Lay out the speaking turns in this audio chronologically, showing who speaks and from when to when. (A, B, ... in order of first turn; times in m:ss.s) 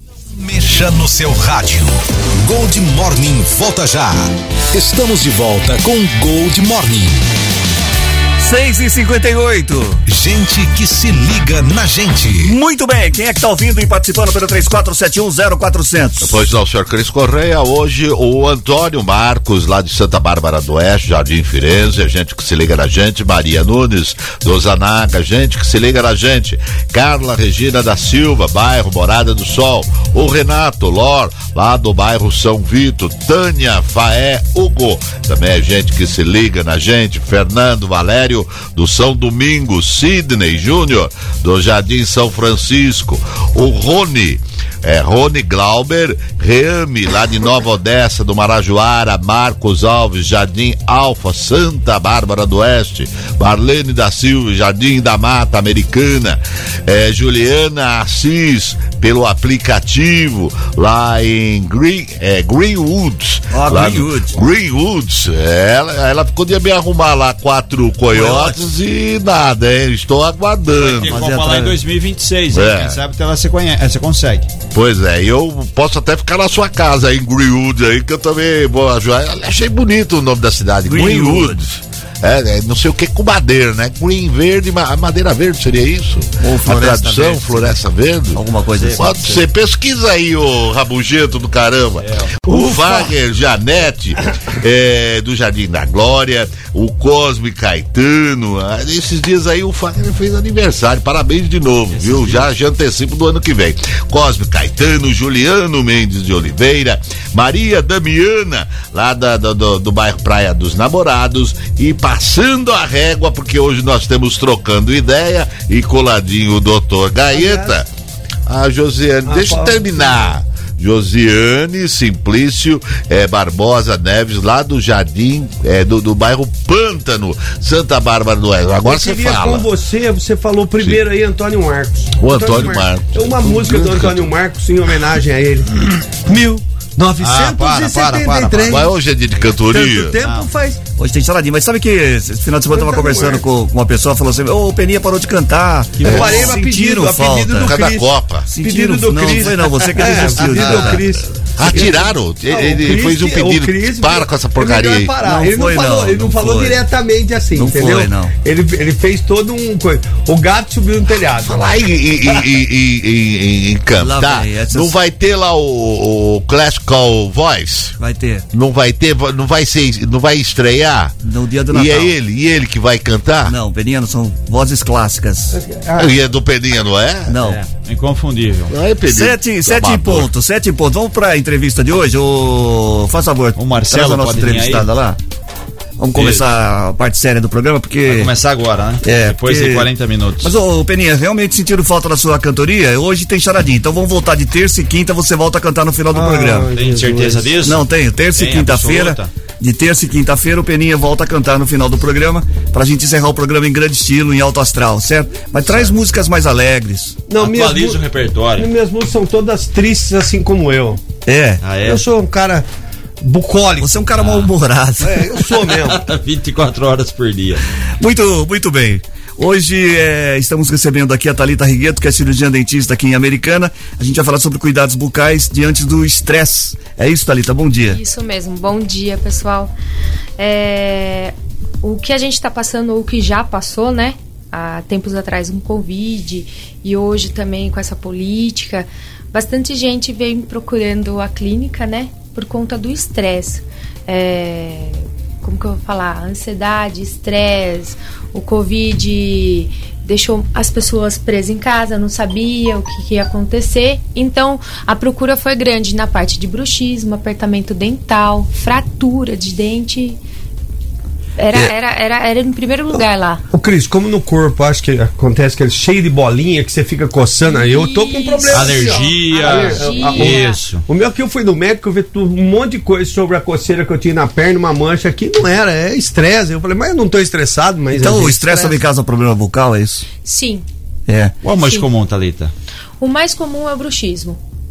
0:00.3-0:07.2 A
0:08.4-0:10.0 B
0:10.1-0:12.6 A
0:12.4-0:16.4 B
0:16.2-1:11.2 C
1:03.5-1:04.4 B
1:08.1-1:08.6 B
1:10.7-1:14.5 D
1:11.1-1:11.8 B
1:12.5-1:13.0 C
1:14.7-1:57.9 C
1:20.9-1:21.6 B
1:26.4-1:27.8 B
1:28.3-1:29.4 B
1:32.0-1:32.4 D
1:32.5-1:33.1 E
1:41.9-1:42.5 D
1:57.3-1:57.8 E
1:58.5-2:09.7 C
1:59.2-2:00.3 E
2:08.8-2:18.9 E
2:12.2-2:14.3 C
2:17.2-2:19.6 D
2:18.7-2:20.2 C
2:19.6-2:20.8 E
2:20.2-2:20.5 D
2:21.0-2:27.7 B
2:22.7-2:23.4 E
2:26.0-2:26.3 D
2:26.0-2:41.8 E
2:26.0-2:26.5 C
2:27.6-2:28.5 C
2:28.5-2:31.0 B
2:31.6-2:35.1 C
2:35.2-2:36.8 B
2:37.6-2:38.3 B
2:41.4-2:48.0 C
2:44.0-2:45.0 B
2:48.0-2:48.4 B
2:48.5-2:51.2 C
2:51.2-2:52.1 B
2:51.7-2:53.6 C
2:53.5-2:55.6 B
2:55.5-2:56.2 E
2:56.0-2:57.4 C
2:57.3-2:57.6 B
2:57.4-2:58.7 D
2:58.7-3:00.3 C
2:59.0-3:05.2 B
3:03.6-3:04.9 D
3:06.0-3:08.3 B
3:06.2-3:06.4 D
3:08.1-3:10.5 D
3:09.0-3:09.9 B
3:10.4-3:16.7 B
3:16.1-3:17.6 E
3:16.7-3:19.3 D
3:17.6-3:27.2 B
3:27.3-3:28.0 E
3:27.4-3:28.7 D
3:28.6-3:31.0 E
3:31.3-3:31.6 B
3:31.6-3:32.0 D
3:31.8-3:32.7 E
3:33.2-3:34.0 E
3:33.8-3:35.3 B
3:34.2-3:34.5 D
3:35.0-3:36.0 E
3:35.7-3:37.6 D
3:38.0-3:48.0 B
3:47.8-3:49.7 F
3:50.4-4:20.2 F
4:21.4-4:23.4 F
4:23.5-4:38.8 E
4:27.5-4:30.6 F
4:28.5-4:30.8 D
4:38.0-4:40.1 B
4:40.2-4:40.6 F
4:41.1-4:41.4 B
4:41.4-4:42.5 D
4:41.5-4:41.9 F
4:43.0-4:44.4 F